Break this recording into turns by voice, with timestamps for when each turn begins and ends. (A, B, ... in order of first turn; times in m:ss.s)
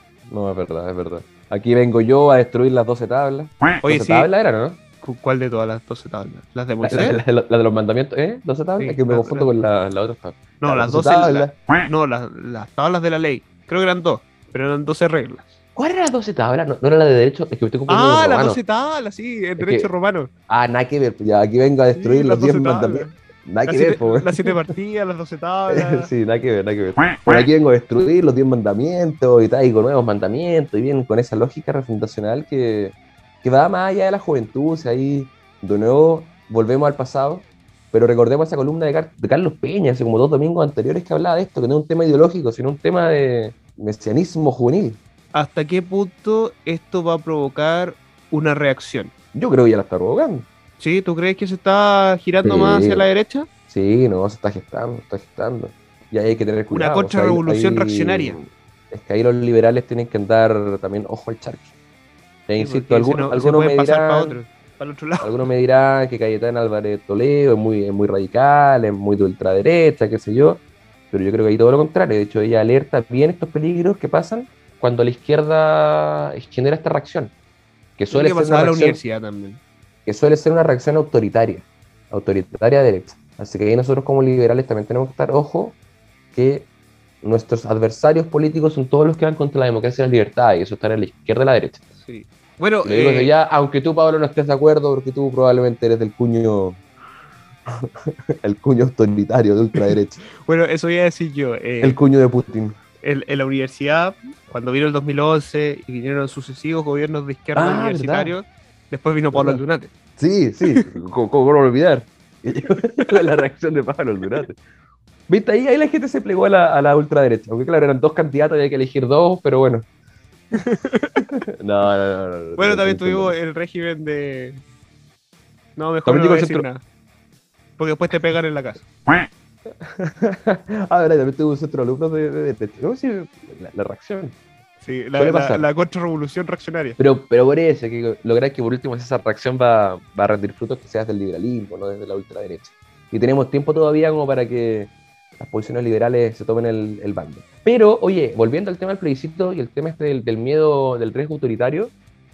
0:00.3-0:04.8 A
0:03.8-0:04.3 B
0:05.0-0:07.2 B
0:06.8-0:11.6 A
0:08.8-0:09.5 B
0:10.6-0:15.5 B
0:15.8-0:18.6 A
0:17.9-0:20.3 B
0:19.6-0:19.9 A
0:20.5-0:24.6 A
0:21.9-0:23.1 B
0:23.7-0:26.1 B
0:25.7-0:45.0 A
0:45.3-0:49.1 B
0:49.3-0:50.5 A
0:50.8-0:53.5 B
0:52.4-0:53.1 A
0:53.7-1:01.7 A
0:56.7-0:58.4 B
1:02.5-1:04.4 A
1:02.6-1:05.4 B
1:05.2-1:17.3 A
1:18.0-1:19.0 A
1:18.1-1:19.6 B
1:20.1-1:25.8 A
1:26.3-1:26.7 A
1:27.2-1:31.8 A
1:32.0-1:33.3 B
1:32.8-1:36.8 A
1:38.4-1:40.2 A
1:40.4-1:42.0 B
1:41.8-1:42.8 A
1:43.0-1:49.9 B
1:47.6-1:48.4 A
1:49.3-1:49.6 A
1:50.2-1:54.6 A
1:55.3-1:59.9 A
2:00.5-2:01.3 B
2:01.5-2:03.4 A
2:02.6-2:04.6 B
2:05.8-2:06.8 B
2:06.1-2:06.7 A
2:07.8-2:08.8 B
2:09.7-2:14.4 A
2:14.8-2:17.0 B
2:15.2-2:15.7 A
2:17.0-2:31.9 A